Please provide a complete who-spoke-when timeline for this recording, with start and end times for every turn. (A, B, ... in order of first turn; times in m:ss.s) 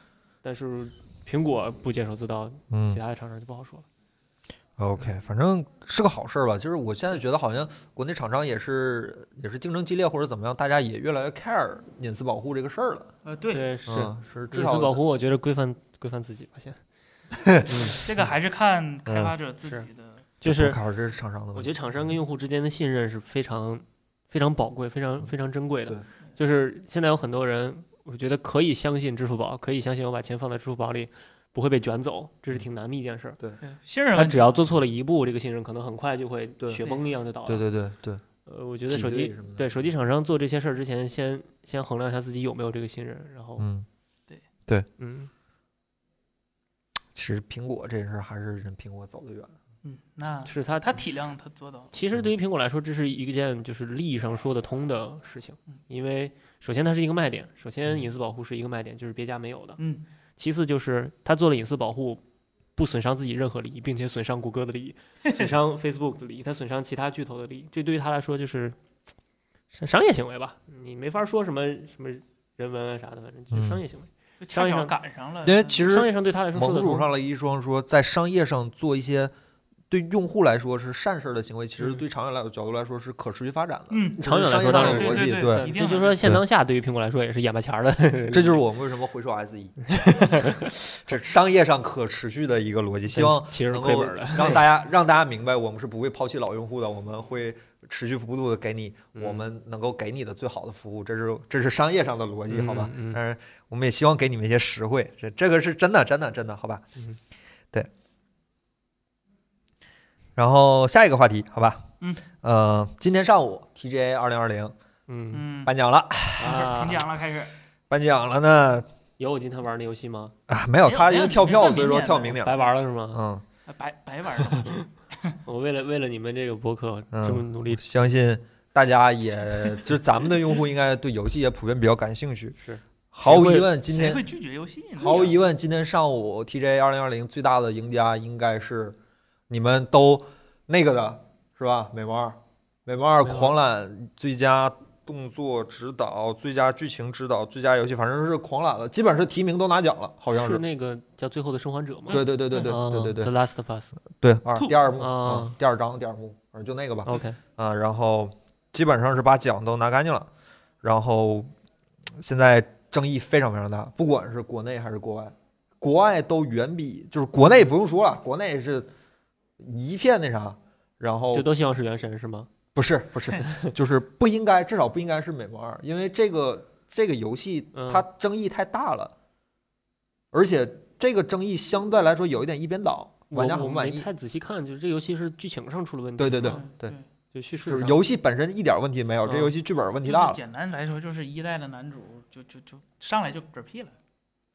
0:00.4-0:03.8 A
0:02.7-0:03.0 B
0:04.8-0:13.1 B
0:13.2-0:13.7 C
0:13.5-0:16.8 A
0:13.8-0:15.0 B
0:17.4-0:18.0 B
0:17.7-0:18.0 A
0:17.9-0:20.3 C
0:19.1-0:19.3 B
0:20.4-0:20.8 A
0:20.4-0:22.1 B
0:21.5-0:33.4 A
0:33.6-0:34.6 C
0:34.1-0:37.6 A
0:37.4-0:38.2 B
0:38.4-0:43.7 A
0:38.9-0:39.7 B
0:43.6-0:43.8 B
0:45.0-0:45.3 A
0:47.1-0:49.5 B
0:49.8-0:51.9 C
0:50.4-0:51.0 A
0:51.9-0:59.8 A
0:59.8-1:00.0 C
1:00.4-1:02.2 A
1:02.8-1:08.8 A
1:09.7-1:14.9 A
1:13.5-1:13.8 B
1:14.4-1:15.8 C
1:15.4-1:19.3 B
1:15.7-1:17.1 A
1:19.9-1:25.6 B
1:23.9-1:26.2 C
1:24.2-1:28.6 A
1:28.3-1:46.8 B
1:29.9-1:30.7 A
1:33.1-1:34.6 A
1:39.2-1:39.4 A
1:42.5-1:43.2 A
1:50.4-1:51.9 B
1:52.4-1:54.7 B
1:55.1-1:55.5 A
1:55.3-1:55.7 C
1:55.6-1:56.6 B
1:56.4-1:57.5 C
1:56.4-1:57.0 A
1:57.9-1:58.9 B
1:59.2-2:00.3 A
2:00.5-2:03.4 B
2:00.8-2:02.7 C
2:02.3-2:03.2 A
2:03.6-2:05.4 C
2:05.4-2:07.8 A
2:07.1-2:12.6 B
2:12.6-2:13.6 A
2:13.1-2:14.3 B
2:13.3-2:15.3 C
2:15.0-2:19.0 B
2:19.5-2:30.6 B
2:23.2-2:23.5 A
2:30.3-2:33.9 A
2:32.1-2:32.7 C
2:32.1-2:33.3 B
2:34.2-2:40.3 B
2:34.6-2:34.8 C
2:35.0-2:35.5 A
2:37.0-2:37.4 A
2:40.8-2:41.5 B
2:42.2-2:48.9 B
2:49.6-2:51.5 B
2:51.3-2:52.5 A
2:52.7-2:59.1 B
2:53.4-2:53.7 A
2:57.7-2:58.0 A
3:00.3-3:04.1 B
3:03.3-3:06.6 A
3:06.2-3:06.9 B
3:06.4-3:07.1 C
3:07.3-3:08.0 A
3:07.7-3:10.4 B
3:09.2-3:09.5 A
3:10.0-3:13.9 C